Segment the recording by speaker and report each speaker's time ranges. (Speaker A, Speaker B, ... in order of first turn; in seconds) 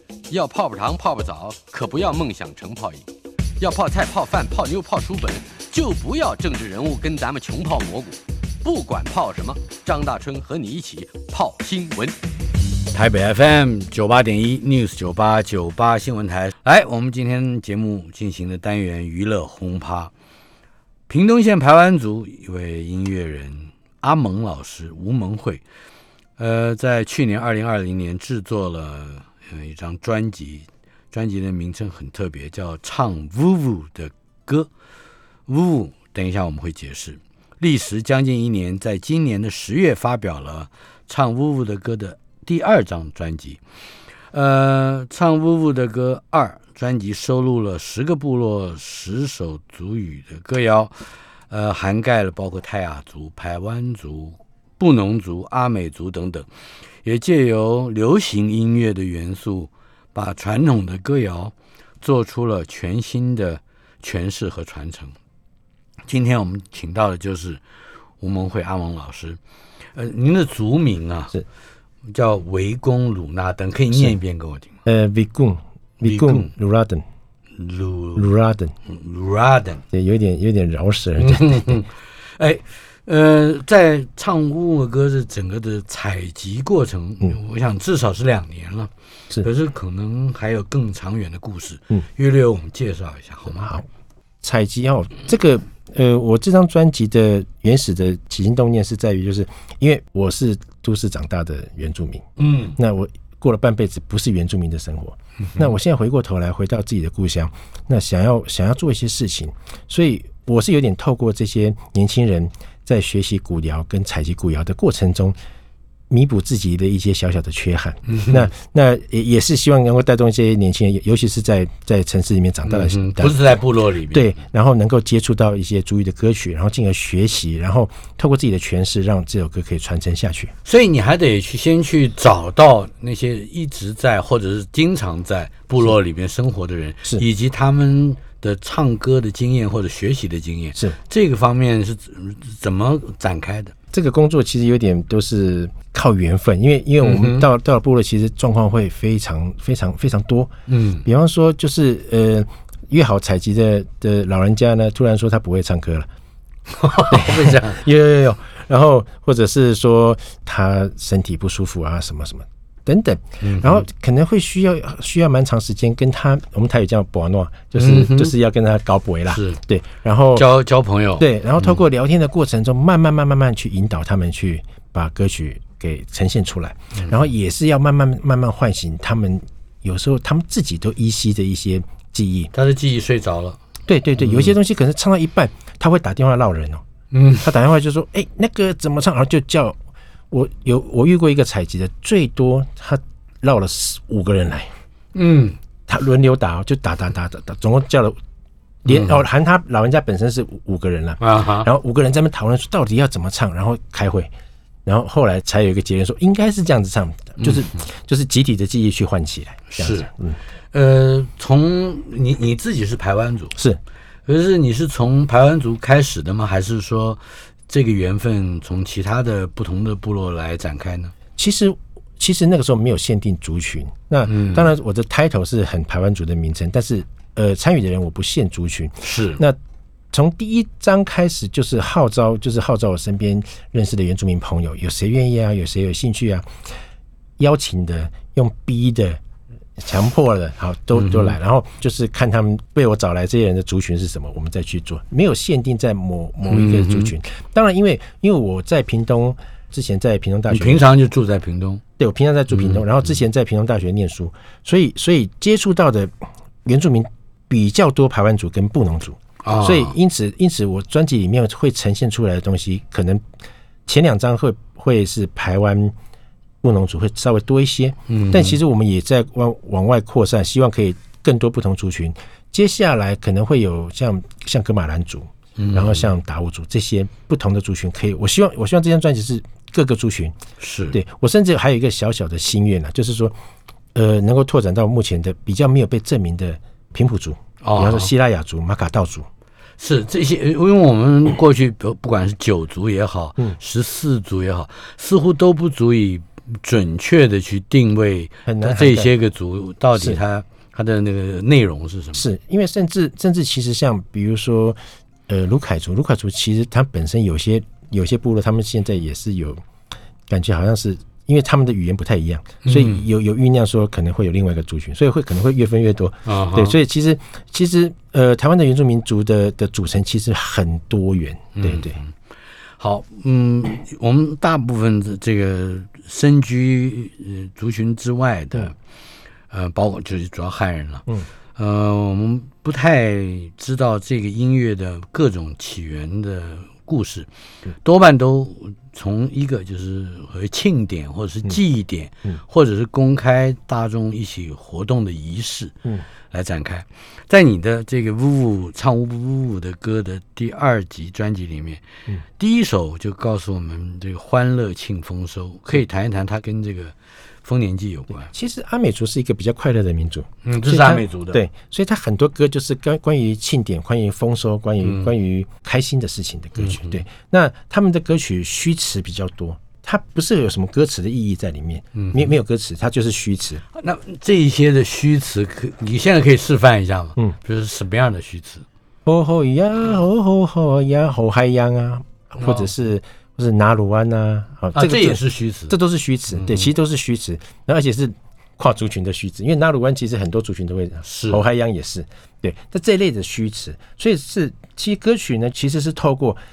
Speaker A: 0.3-3.0, 3.6-12.2
Speaker B: 12.9-20.1, 21.1-25.6, 26.4-34.7, 35.5-43.6, 44.3-50.9, 51.5-56.5, 57.0-65.2, 66.1-67.6, 68.2-69.4, 70.0-71.4, 72.1-74.7, 76.0-76.5, 77.6-78.3, 78.9-79.8, 81.2-88.9, 89.4-93.7, 102.4-102.8, 118.1-118.5, 122.7-124.3, 130.7-143.8, 147.0-147.5, 150.7-151.0, 156.7-157.8, 163.4-163.8, 167.8-168.3, 169.3-169.6, 170.3-171.8, 182.5-183.6, 184.2-184.5, 187.1-187.5, 195.2-195.6, 198.9-199.2, 201.2-201.7, 207.4-207.7, 209.7-210.1, 210.7-213.5, 214.3-221.1, 224.3-224.7, 229.0-229.4, 240.9-241.3, 246.5-247.1, 250.5-251.8, 252.5-252.8, 259.4-259.9, 268.1-268.6, 275.6-276.1, 280.6-281.0, 287.6-288.1, 289.8-302.3, 312.6-313.1, 316.3-316.8, 321.6-322.1, 322.8-328.8, 329.5-337.3, 337.8-345.8, 346.3-351.8, 352.4-358.3, 360.4-361.4, 364.8-365.1, 366.6-367.0, 371.9-372.3, 373.8-378.7, 382.4-382.7, 384.8-385.8, 386.3-386.7, 391.1-391.4
Speaker C: 74.9-77.0, 78.2-78.7, 79.9-81.8, 93.6-93.9, 94.4-115.4, 116.1-123.6, 124.1-130.5, 143.9-156.1, 157.1-170.5, 171.2-182.5, 183.9-186.8, 187.4-189.8, 190.3-194.7, 195.9-198.2, 198.9-204.3, 204.8-210.4, 213.5-213.8, 221.4-229.6, 230.1-236.5, 237.4-239.2, 239.8-250.9, 252.0-263.2, 263.9-265.9, 266.6-280.4, 280.9-283.4, 283.9-289.3, 298.5-299.1, 302.1-309.6, 310.3-322.0, 358.2-373.6, 379.1-396.4